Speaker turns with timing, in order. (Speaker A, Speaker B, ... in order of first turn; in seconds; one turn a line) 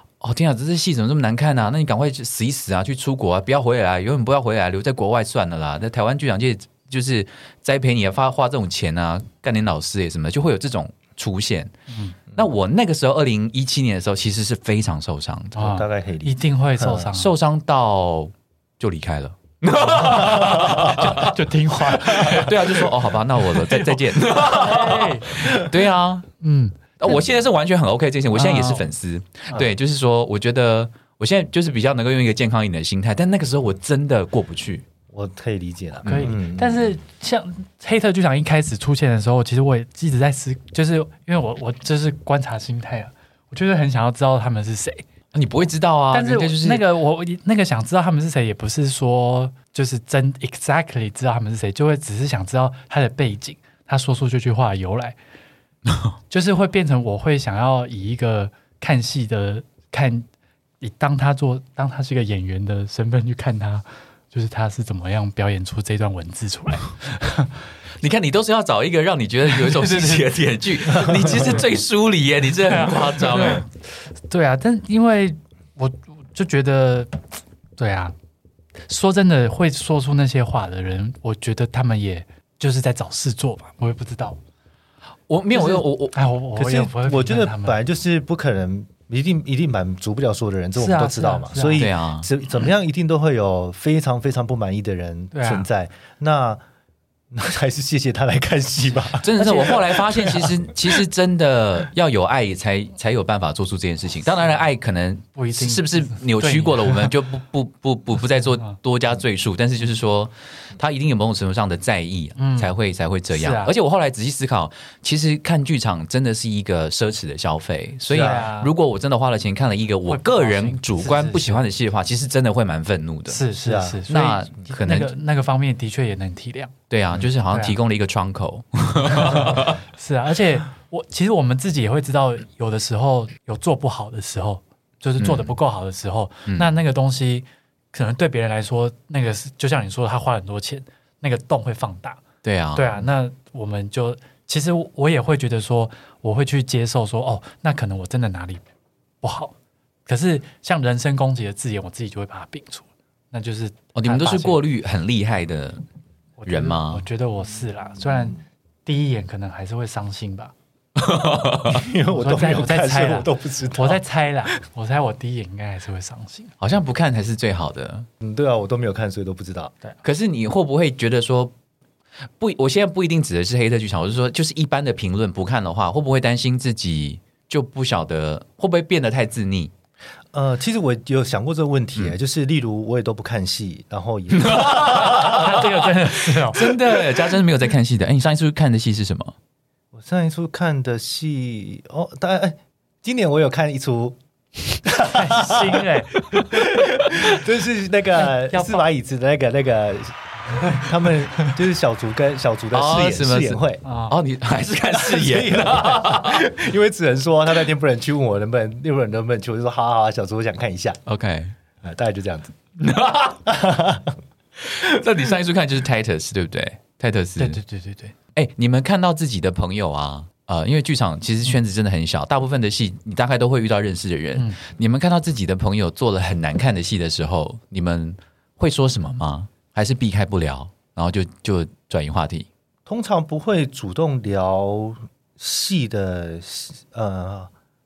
Speaker A: 0.2-11.7
Speaker B: 11.9-12.2
Speaker A: 12.3-15.6
Speaker B: 15.6-17.3
Speaker C: 15.6-17.1
Speaker A: 17.1-21.4
Speaker B: 19.9-22.9
Speaker A: 22.0-26.3
Speaker B: 23.5-25.7
Speaker B: 26.4-27.2
Speaker A: 27.0-34.9
Speaker B: 28.3-28.9
Speaker C: 35.1-36.9
Speaker B: 36.0-45.0
Speaker A: 36.0-36.3
Speaker A: 45.3-46.8
Speaker B: 46.1-55.1
Speaker B: 56.3-60.2
Speaker B: 60.8-67.5
Speaker A: 68.0-73.6
Speaker B: 69.5-70.3
Speaker B: 71.0-71.6
Speaker B: 72.6-73.7
Speaker B: 74.3-78.1
Speaker B: 78.9-84.4
Speaker A: 85.3-86.2
Speaker B: 85.5-87.8
Speaker C: 86.5-96.6
Speaker B: 90.8-91.9
Speaker A: 91.8-92.3
Speaker B: 95.3-95.7
Speaker C: 97.3-100.5
Speaker A: 99.2-123.4
Speaker B: 99.4-99.9
Speaker B: 105.3-107.1
Speaker B: 112.4-112.7
Speaker B: 113.3-113.7
Speaker C: 118.1-118.5
Speaker B: 118.1-118.7
Speaker B: 120.1-121.7
Speaker B: 123.3-126.7
Speaker C: 123.6-124.0
Speaker A: 124.1-125.1
Speaker A: 126.9-129.8
Speaker B: 127.5-127.8
Speaker B: 129.0-142.2
Speaker A: 135.2-135.6
Speaker A: 142.4-143.0
Speaker B: 142.7-148.6
Speaker B: 149.2-149.5
Speaker B: 150.1-154.6
Speaker A: 153.9-155.8
Speaker B: 156.4-160.5
Speaker A: 156.4-157.0
Speaker A: 160.9-161.8
Speaker C: 161.7-164.0
Speaker B: 162.1-166.5
Speaker A: 166.6-168.1
Speaker C: 168.2-169.7
Speaker A: 170.0-171.5
Speaker A: 172.4-179.7
Speaker C: 180.3-185.3
Speaker A: 184.3-189.3
Speaker B: 185.0-187.0
Speaker C: 189.9-194.2
Speaker C: 194.7-195.9
Speaker B: 195.0-196.2
Speaker A: 196.2-196.6
Speaker C: 196.5-200.2
Speaker B: 198.2-198.8
Speaker C: 200.7-203.8
Speaker A: 202.7-206.5
Speaker B: 203.8-204.2
Speaker C: 204.9-211.0
Speaker A: 211.1-211.5
Speaker C: 211.8-212.5
Speaker A: 212.8-213.4
Speaker C: 213.4-214.2
Speaker A: 214.6-217.6
Speaker B: 217.4-218.1
Speaker A: 218.3-232.5
Speaker C: 232.8-237.5